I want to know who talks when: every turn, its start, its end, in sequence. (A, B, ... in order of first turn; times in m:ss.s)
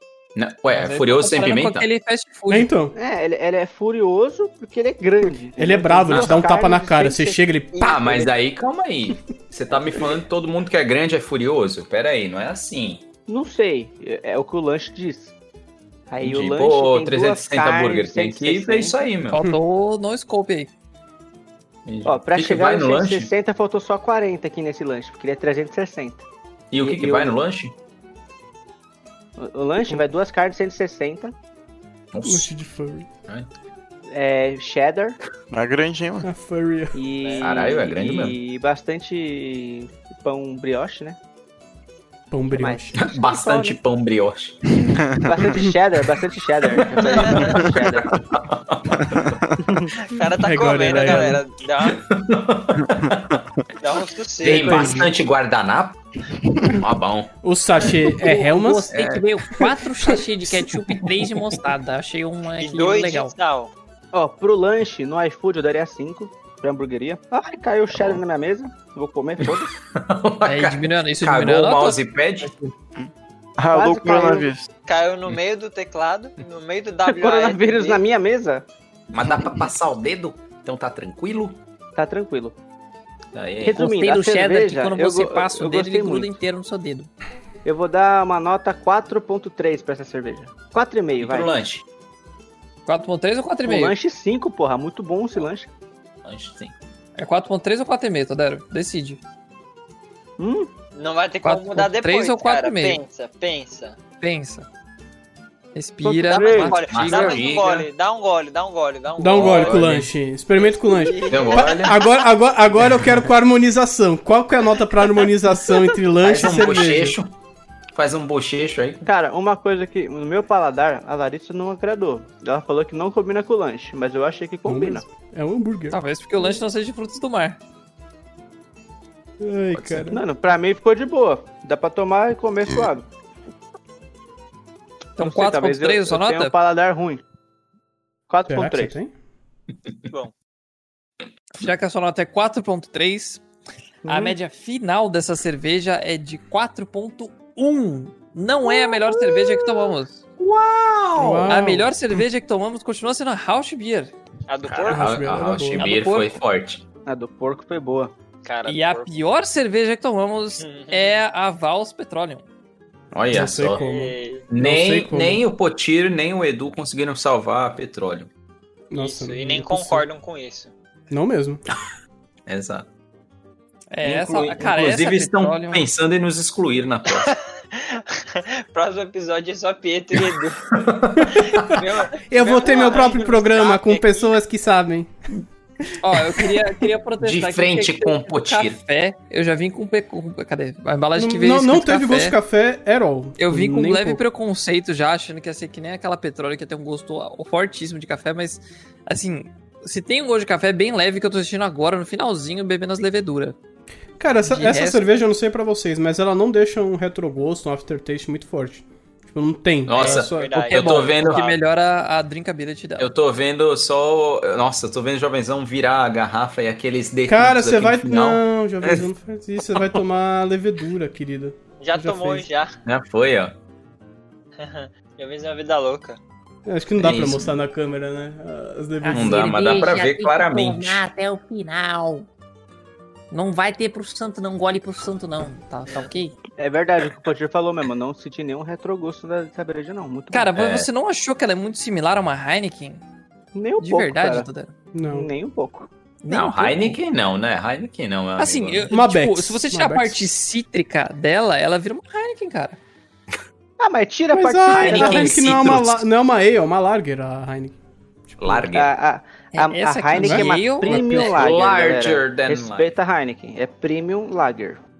0:00.4-0:01.9 A
0:00.7-0:02.7 B
0:02.5-0:02.9 C
0:03.0-0:07.5 D
0:05.6-0:07.8 C
0:06.1-0:06.5 A
0:07.7-0:08.2 E
0:07.8-0:13.0 A
0:13.3-0:15.3 D
0:16.1-0:19.0 D
0:16.2-0:19.4 A
0:19.3-0:20.7 B
0:21.9-0:23.3 A
0:22.0-0:26.2 D
0:26.7-0:27.7 A
0:26.8-0:27.4 D
0:29.4-0:31.3 D
0:32.1-0:32.5 A
0:32.2-0:33.1 C
0:34.1-0:35.2 D
0:35.5-0:36.3 F
0:36.2-0:37.0 C
0:36.9-0:41.2 D
0:37.2-0:37.6 E
0:37.4-0:38.4 A
0:42.3-0:43.0 C
0:42.5-0:43.8 D
0:43.0-0:44.8 A
0:44.9-0:45.3 F
0:45.2-0:48.1 D
0:46.8-0:49.3 A
0:47.1-0:47.6 E
0:49.0-0:49.4 F
0:50.0-0:52.0 E
0:50.3-0:51.4 C
0:51.8-0:53.4 A
0:53.8-0:55.1 E
0:54.4-0:58.0 A
0:54.4-0:55.1 C
0:57.4-0:58.9 C
0:58.2-1:03.3 B
0:58.9-0:59.3 A
1:00.6-1:01.4 A
1:02.6-1:03.7 E
1:04.1-1:09.7 D
1:09.4-1:12.5 A
1:10.4-1:12.7 B
1:13.0-1:14.7 F
1:13.7-1:14.5 D
1:14.9-1:18.0 E
1:17.1-1:18.6 D
1:19.1-1:21.6 A
1:22.0-1:22.6 D
1:23.3-1:23.8 A
1:23.6-1:26.4 D
1:23.7-1:27.1 B
1:27.6-1:31.5 D
1:31.2-1:31.8 A
1:32.9-1:34.0 B
1:33.6-1:35.7 D
1:36.2-1:36.7 A
1:37.2-1:39.2 B
1:40.4-1:40.7 D
1:41.0-1:44.0 E
1:41.4-1:43.0 B
1:44.2-1:44.7 B
1:45.8-1:47.5 B
1:46.0-1:46.8 D
1:46.3-1:49.9 E
1:46.9-1:47.9 A
1:49.2-1:57.2 C
1:49.3-1:50.1 A
1:50.6-1:52.0 E
1:51.3-1:52.0 A
1:56.2-1:57.3 A
1:57.9-1:59.0 A
1:59.0-2:05.1 D
2:04.7-2:06.0 C
2:05.9-2:07.6 B
2:09.4-2:10.2 C
2:10.0-2:13.1 D
2:15.2-2:16.5 B
2:15.2-2:17.2 D
2:18.3-2:19.0 D
2:18.5-2:19.1 C
2:21.6-2:23.4 B
2:24.0-2:24.4 D
2:24.1-2:30.2 B
2:29.2-2:31.5 A
2:31.2-2:31.9 C
2:31.5-2:34.1 B
2:34.5-2:35.2 E
2:34.6-2:36.8 A
2:34.9-2:35.9 C
2:35.7-2:36.4 B
2:37.1-2:38.1 D
2:38.4-2:39.1 E
2:38.7-2:42.4 B
2:40.6-2:41.2 E
2:43.1-2:43.8 A
2:43.3-2:45.4 C
2:43.8-2:44.5 E
2:44.5-2:48.3 A
2:48.9-2:50.1 C
2:49.0-2:50.7 E
2:51.1-2:51.6 C
2:52.5-2:52.9 A
2:53.9-2:55.8 B
2:54.0-2:57.3 A
2:57.2-3:00.7 E
3:00.7-3:01.8 A
3:01.6-3:04.4 E
3:02.2-3:05.1 C
3:06.0-3:12.4 B
3:07.2-3:08.8 A
3:11.2-3:14.2 C
3:13.4-3:23.6 B
3:24.2-3:30.7 C
3:24.4-3:25.2 B
3:29.9-3:31.4 A
3:30.0-3:31.6 E
3:30.7-3:33.1 B
3:33.0-3:39.0 A
3:37.3-3:42.5 C
3:41.8-3:42.7 E
3:42.8-3:43.6 A
3:44.6-3:46.2 E
3:46.7-3:49.5 C
3:47.0-3:47.6 A
3:49.0-3:52.3 B
3:49.1-3:51.1 A
3:53.3-3:56.4 B
3:56.6-4:00.5 D
4:00.3-4:03.0 B
4:00.6-4:00.9 A
4:03.6-4:04.5 D
4:03.8-4:04.7 B
4:04.9-4:05.3 C
4:05.0-4:05.9 D
4:06.2-4:07.0 B
4:06.3-4:08.9 A
4:08.4-4:12.8 B
4:08.9-4:10.2 C
4:13.8-4:15.5 D
4:14.3-4:17.8 C
4:14.7-4:16.1 A
4:18.3-4:18.6 C
4:18.4-4:18.9 A
4:18.7-4:24.8 D
4:19.5-4:21.3 B
4:20.2-4:21.3 C
4:20.8-4:23.0 A